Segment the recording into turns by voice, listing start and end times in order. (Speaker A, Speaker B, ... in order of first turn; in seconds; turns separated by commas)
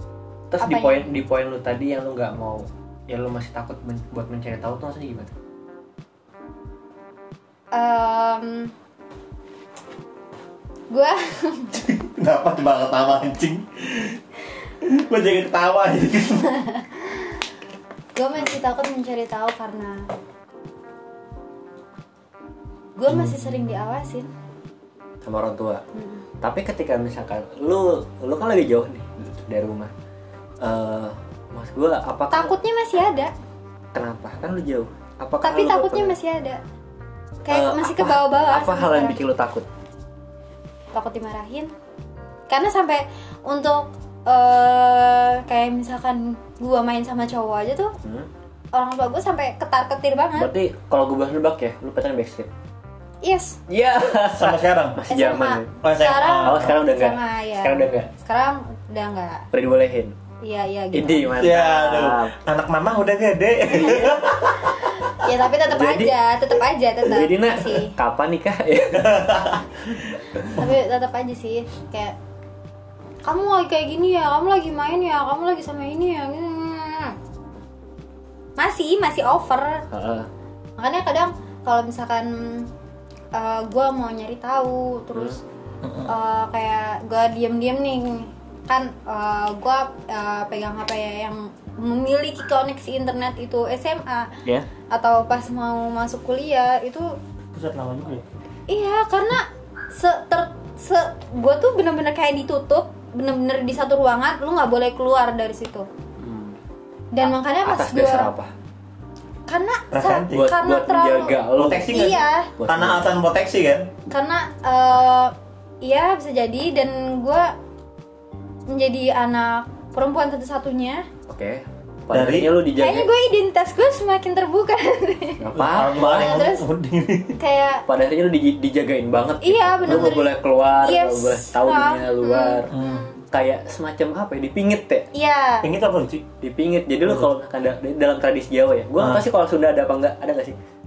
Speaker A: 0.5-5.3, Speaker B: 0.6-1.1, Speaker B: 7.7-8.7, Speaker B: 10.9-11.7, Speaker C: 11.8-14.2, Speaker C: 14.8-16.5, Speaker B: 16.6-17.3, Speaker B: 18.2-20.1, Speaker B: 23.0-24.3, Speaker A: 25.2-25.8, Speaker B: 25.9-26.2, Speaker A: 26.4-29.9, Speaker A: 30.6-32.6, Speaker B: 32.3-33.3, Speaker A: 33.9-36.1, Speaker B: 35.4-36.6, Speaker B: 37.5-39.2, Speaker A: 37.5-39.7, Speaker B: 40.9-41.7, Speaker B: 42.5-47.9, Speaker A: 48.0-48.3, Speaker B: 48.7-50.5, Speaker A: 50.4-52.5, Speaker B: 53.2-53.6, Speaker A: 53.7-55.7, Speaker C: 54.4-55.0, Speaker B: 55.1-59.5, Speaker C: 55.8-56.7, Speaker A: 56.3-58.1, Speaker A: 59.5-60.1, Speaker B: 60.4-61.4, Speaker A: 60.9-62.4, Speaker C: 61.4-65.0, Speaker B: 63.8-67.9, Speaker A: 65.7-66.2, Speaker A: 67.0-69.6, Speaker C: 69.0-69.8, Speaker B: 70.5-72.2, Speaker B: 73.2-77.2, Speaker B: 78.6-79.8, Speaker A: 79.9-80.3, Speaker B: 80.8-82.7, Speaker B: 83.3-85.4, Speaker C: 85.8-86.1, Speaker B: 86.1-94.3, Speaker B: 94.9-97.2, Speaker C: 97.5-98.2, Speaker B: 98.7-105.9, Speaker A: 106.2-106.6, Speaker B: 107.1-108.3, Speaker A: 107.2-108.5, Speaker B: 109.5-111.4, Speaker C: 109.9-110.5, Speaker A: 110.3-113.1, Speaker C: 111.6-113.9, Speaker B: 111.9-112.5, Speaker B: 114.1-117.5, Speaker B: 118.7-121.1, Speaker A: 121.3-123.1, Speaker C: 122.1-122.6, Speaker B: 122.8-126.7, Speaker A: 125.4-126.4, Speaker C: 125.5-127.4, Speaker B: 127.4-127.8, Speaker A: 127.9-132.7, Speaker B: 129.4-133.2, Speaker C: 129.9-130.2, Speaker C: 132.7-133.1, Speaker A: 133.3-135.1, Speaker B: 135.1-135.7, Speaker C: 135.6-136.2, Speaker A: 136.4-140.6, Speaker C: 139.0-139.2